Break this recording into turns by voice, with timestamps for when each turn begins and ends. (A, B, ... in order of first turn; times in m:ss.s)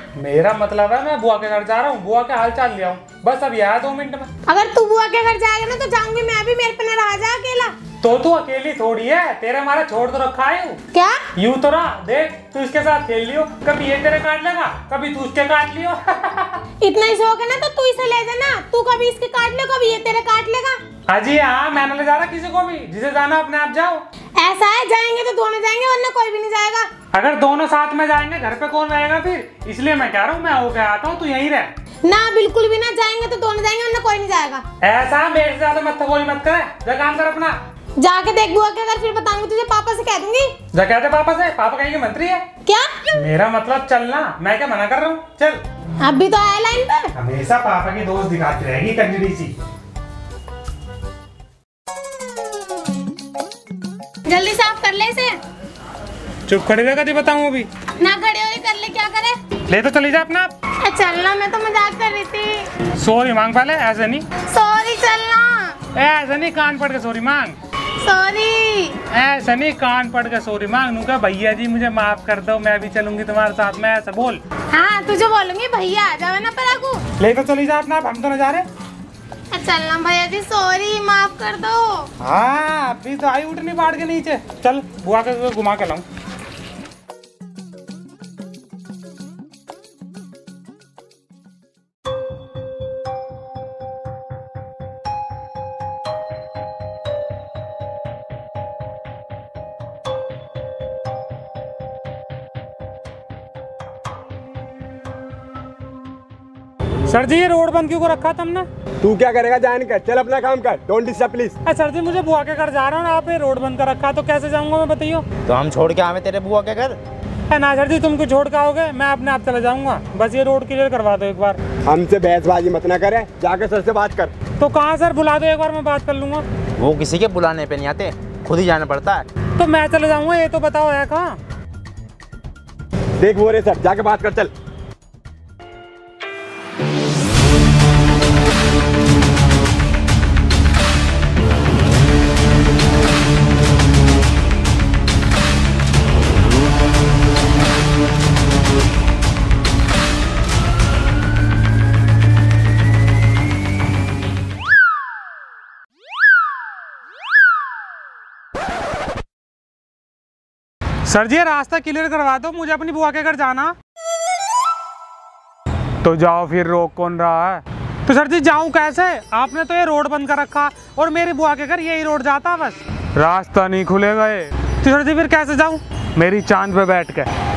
0:00.2-0:04.3 A
0:04.5-0:07.7 B
0:08.0-0:10.8 A
0:10.9-0:11.2 B
0:11.4-0:16.6 A
0:16.8-0:20.8 B
0:21.1-0:24.0 A
0:24.4-0:26.9 B
0:27.1-0:31.7 A
0:32.1-0:34.6 B
0:34.8-0:37.6 A
0:38.0-0:40.6 B
0:40.7-0:42.4 A
0:42.7-0:42.9 B
0:43.2-0:45.6 A
0:46.0-0:47.1 B
0:47.2-0:49.5 A
0:54.2-0:55.4 B
0:56.5-0:57.7 A
0:58.0-0:59.4 B
0:59.7-1:00.5 A
1:00.8-1:02.7 B
1:03.0-1:04.2 A
1:04.5-1:05.8 B
1:06.0-1:07.6 A
1:08.0-1:09.0 B
1:09.1-1:14.4 A
1:14.7-1:17.0 B
1:17.2-1:18.6 A
1:19.5-1:22.1 B
1:22.2-1:26.0 A
1:47.1-1:48.7 A
1:49.0-1:51.6 C
1:51.6-1:55.2 A
1:55.5-1:57.0 D
1:57.5-2:01.6 A
2:01.9-2:04.3 C
2:04.6-2:06.4 A
2:06.8-2:09.3 D
2:09.6-2:11.4 A
2:13.2-2:14.5 C
2:41.0-2:43.7 A
2:46.0-2:57.3 A